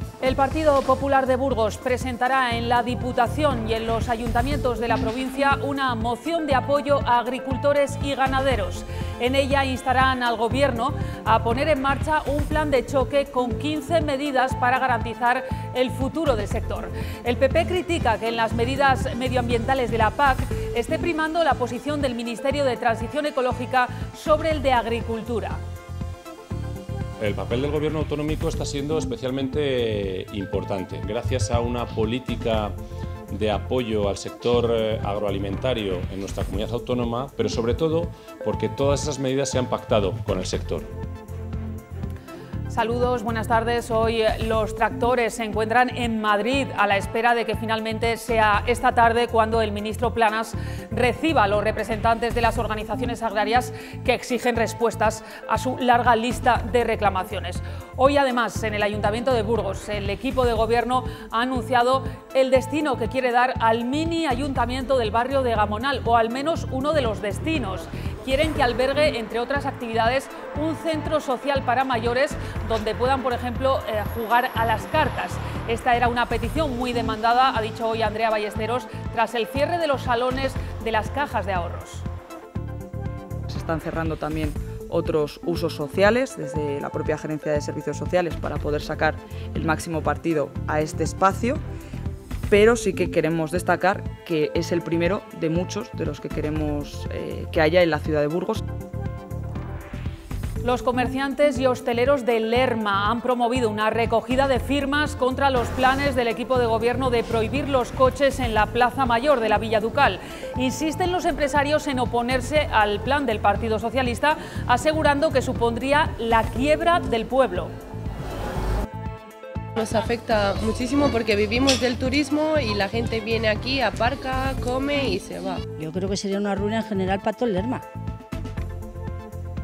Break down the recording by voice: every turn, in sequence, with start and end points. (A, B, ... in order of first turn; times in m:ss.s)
0:00.2-0:25.6 A
0:27.2-0:32.8 B
0:33.3-0:40.9 B
0:42.7-1:22.0 A
1:23.5-1:31.6 C
1:32.5-1:38.6 C
1:40.6-1:57.7 A
1:59.8-2:05.6 D
2:05.8-2:07.8 E